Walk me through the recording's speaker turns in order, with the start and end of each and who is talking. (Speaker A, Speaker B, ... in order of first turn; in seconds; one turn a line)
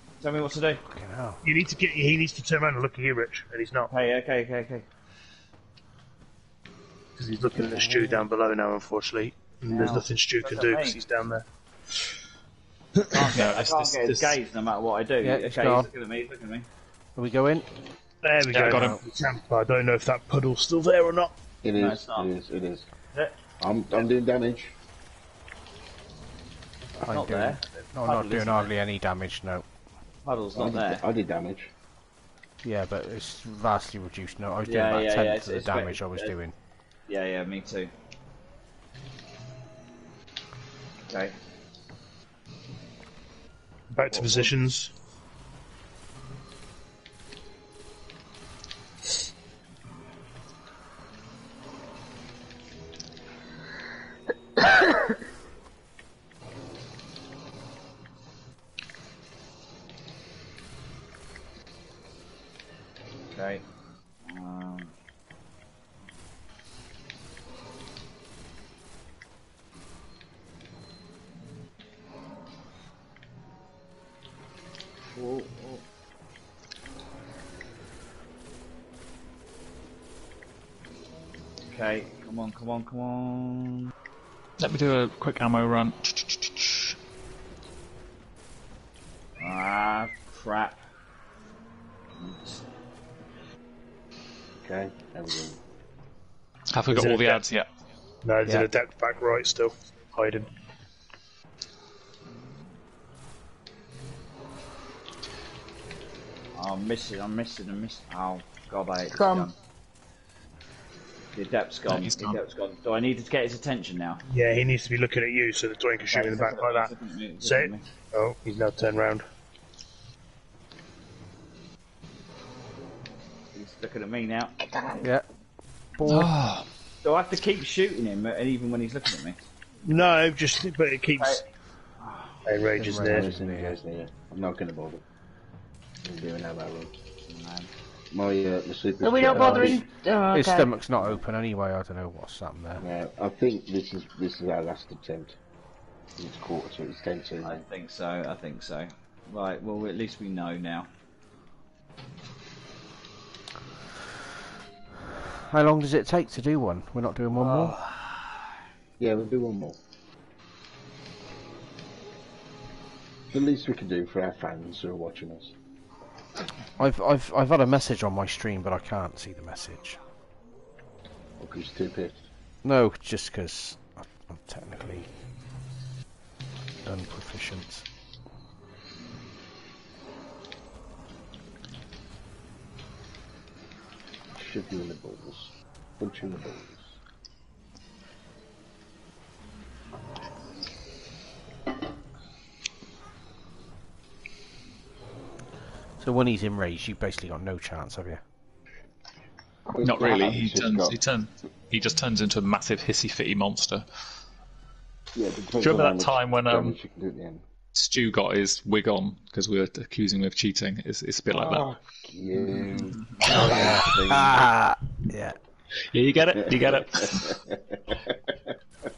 Speaker A: 0.2-0.8
Speaker B: 0.9-1.4
Speaker C: 1.4-3.9
Speaker A: 3.9-4.9
Speaker C: 7.2-11.4
Speaker B: 7.8-8.1
Speaker A: 9.7-11.0
Speaker C: 13.0-13.5
Speaker A: 13.1-16.7
Speaker D: 13.3-14.0
Speaker C: 14.1-14.4
Speaker B: 15.2-15.9
Speaker B: 17.2-17.7
Speaker C: 18.2-21.3
Speaker D: 18.5-19.0
Speaker B: 18.6-19.0
Speaker E: 21.6-22.9
Speaker A: 21.8-22.3
Speaker E: 23.6-24.8
Speaker A: 27.0-28.7
Speaker B: 27.0-29.7
Speaker A: 30.2-31.1
Speaker E: 30.6-31.7
Speaker B: 32.6-36.5
Speaker A: 34.6-36.3
Speaker A: 37.1-37.9
Speaker A: 41.0-41.4
Speaker C: 43.9-44.9
Speaker A: 44.1-44.5
Speaker A: 63.3-63.6
Speaker A: 64.2-64.9
Speaker A: 75.2-75.8
Speaker A: 81.7-83.9
Speaker D: 84.6-87.0
Speaker A: 89.4-90.8
Speaker A: 92.2-92.6
Speaker E: 94.6-95.6
Speaker D: 96.7-97.7
Speaker C: 96.9-97.4
Speaker C: 98.2-100.5
Speaker A: 106.6-109.5
Speaker F: 109.1-109.5
Speaker A: 111.3-114.2
Speaker D: 111.9-112.4
Speaker C: 114.3-119.3
Speaker A: 116.1-117.8
Speaker A: 123.5-125.0
Speaker B: 126.0-126.3
Speaker D: 126.1-126.7
Speaker A: 127.0-129.4
Speaker C: 129.9-131.4
Speaker A: 132.0-132.4
Speaker C: 132.4-133.3
Speaker B: 132.8-133.8
Speaker E: 132.9-135.0
Speaker E: 136.0-136.9
Speaker A: 137.3-137.7
Speaker E: 138.1-139.8
Speaker F: 139.0-140.7
Speaker B: 140.3-142.8
Speaker E: 142.8-145.4
Speaker E: 146.2-147.6
Speaker A: 147.4-150.9
Speaker B: 155.2-157.8
Speaker A: 157.4-158.3
Speaker E: 159.0-159.8
Speaker E: 163.3-165.6
Speaker B: 166.8-170.0
Speaker E: 171.4-172.2
Speaker B: 172.6-175.1
Speaker B: 176.8-177.9
Speaker E: 184.3-187.0
Speaker B: 196.0-198.2
Speaker E: 199.7-200.9
Speaker D: 199.8-203.9
Speaker E: 205.1-207.4
Speaker D: 205.6-206.8
Speaker D: 207.7-211.7
Speaker E: 211.3-214.4
Speaker A: 212.7-213.3
Speaker B: 213.3-215.4
Speaker D: 215.9-217.4
Speaker E: 216.4-218.4